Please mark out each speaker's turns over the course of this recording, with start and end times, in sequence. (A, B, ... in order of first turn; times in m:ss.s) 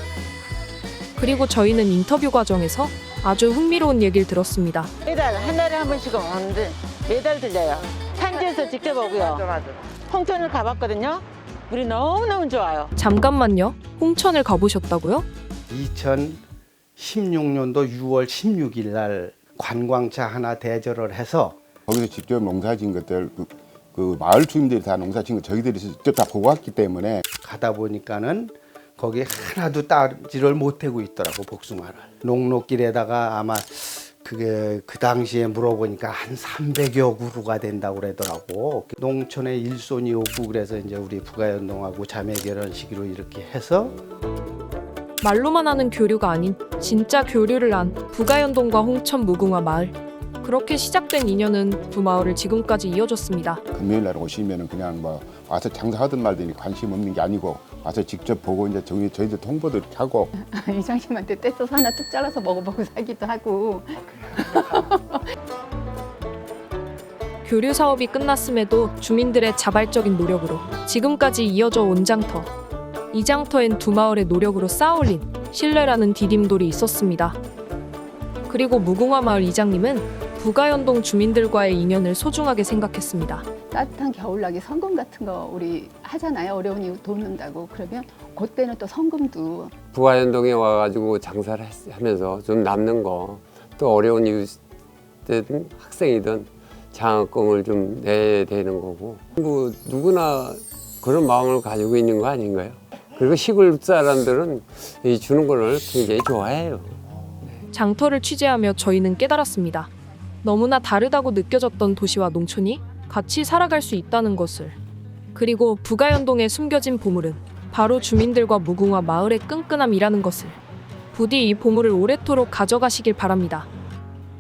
0:01.2-0:04.9 A
0:05.0-0:12.9 B
0:13.0-0:15.3 A
0:15.7-0:16.4 C
0:17.0-0:21.6 C
0:21.9-0:27.2 D
0:27.4-0:44.0 C
0:45.2-0:53.6 A
0:53.7-1:00.3 D
1:00.4-1:05.2 E
1:07.4-1:12.5 A
1:13.1-1:17.4 A
1:18.5-1:23.5 A
1:23.7-1:29.7 E
1:29.9-1:34.6 F
1:35.3-1:47.0 F
1:47.7-1:49.9 A
1:50.4-1:54.8 A
1:55.3-2:00.6 A
2:01.1-2:03.7 A